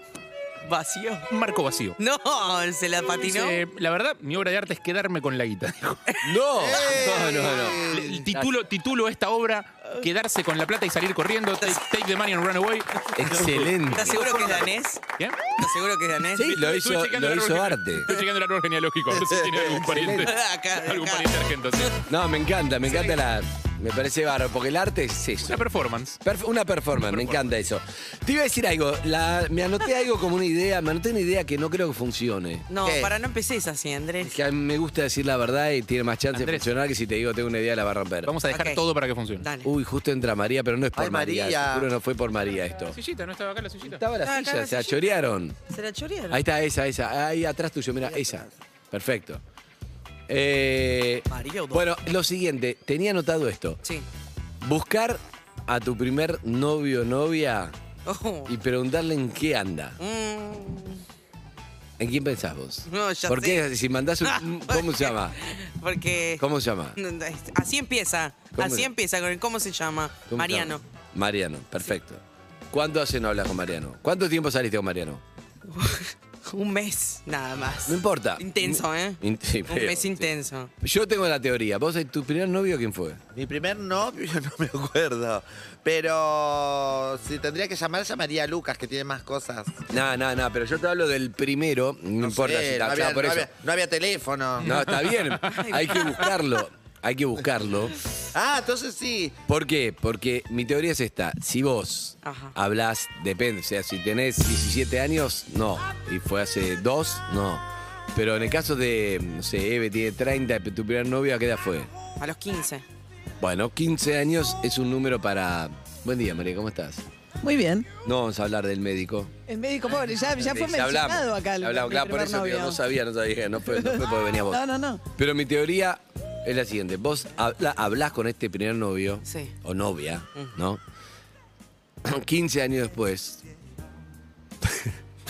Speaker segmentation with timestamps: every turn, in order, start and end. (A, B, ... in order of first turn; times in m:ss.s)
0:00.6-0:01.3 A
0:01.3-0:02.0 B
0:02.0-0:03.6 A
0:03.2-0:06.0 B
0:06.2-0:08.5 C
0:06.6-0:08.2 D
0:07.8-0:14.2 B
0:13.1-0:14.4 C
0:13.9-0:16.6 A
0:15.2-0:15.5 B
0:16.4-0:18.2 C
0:16.5-0:22.0 B
0:19.1-0:20.3 C
0:20.2-0:21.9 A
0:22.1-0:25.6 C
0:22.9-0:23.2 A
0:25.4-0:26.2 B
0:26.2-0:32.6 C
0:27.0-0:27.5 B
0:32.7-0:34.3 A
0:32.8-0:33.1 D
0:34.2-0:38.3 C
0:36.3-0:36.7 B
0:38.2-0:39.4 B
0:38.5-0:38.8 A
0:39.4-0:39.7 A
0:39.6-0:43.0 C
0:41.0-0:41.9 D
0:42.9-0:44.0 B
0:43.8-0:45.6 C
0:44.2-0:45.1 A
0:45.7-0:46.4 A
0:46.3-0:49.4 C
0:50.3-0:53.8 C
0:51.3-0:51.8 A
0:54.6-0:57.8 C
0:58.0-0:58.5 A
0:58.5-1:00.0 C
1:00.0-1:01.0 A
1:02.0-1:05.4 C
1:02.9-1:03.6 A
1:04.2-1:06.4 A
1:06.4-1:07.0 C
1:07.0-1:10.8 A
1:08.5-1:08.9 C
1:10.3-1:15.2 C
1:15.7-1:20.7 A
1:17.9-1:23.2 C
1:23.3-1:29.8 D
1:29.9-1:33.5 C
1:32.2-1:34.8 D
1:34.6-1:38.0 C
1:34.6-1:35.3 B
1:35.5-1:36.2 A
1:38.3-1:39.4 D
1:39.5-1:51.9 C
1:42.2-1:42.5 A
1:52.2-1:52.8 A
1:53.4-1:57.0 C
1:57.4-1:57.9 E
1:58.0-1:59.3 C
1:59.5-2:02.8 E
2:00.4-2:04.6 C
2:03.6-2:05.0 E
2:05.1-2:10.8 C
2:09.2-2:09.5 A
2:12.0-2:13.4 C
2:14.6-2:14.9 C